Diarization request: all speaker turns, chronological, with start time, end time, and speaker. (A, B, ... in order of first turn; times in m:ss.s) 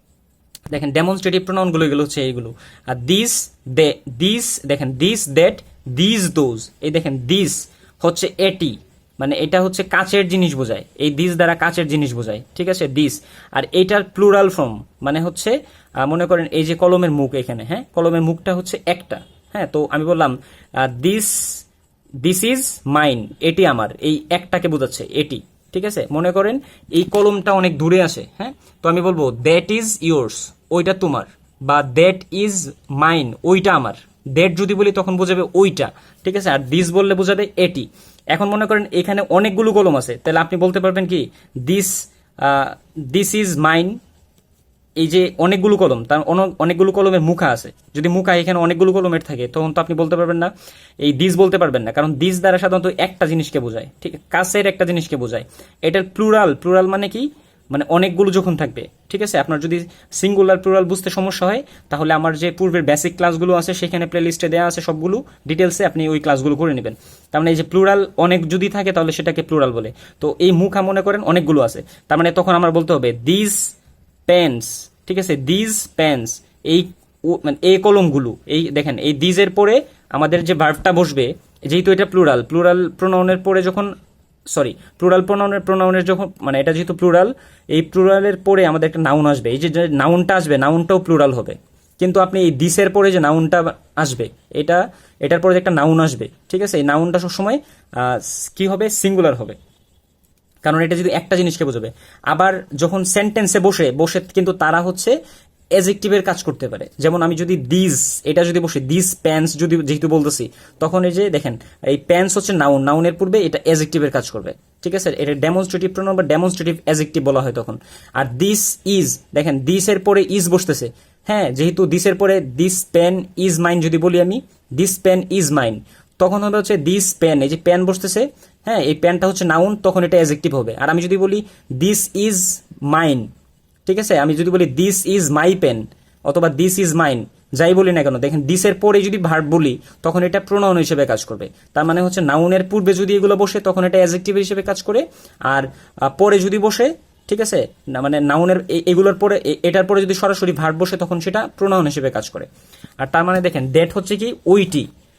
0:00.7-0:21.6 A
0:22.2-0:44.0 A
0:45.0-0:50.5 A
0:51.0-1:13.8 A
1:14.3-1:23.9 A
1:24.5-1:39.6 A
1:40.6-1:45.2 A
1:45.8-2:13.3 A
2:13.8-2:32.5 A
2:33.0-2:34.9 A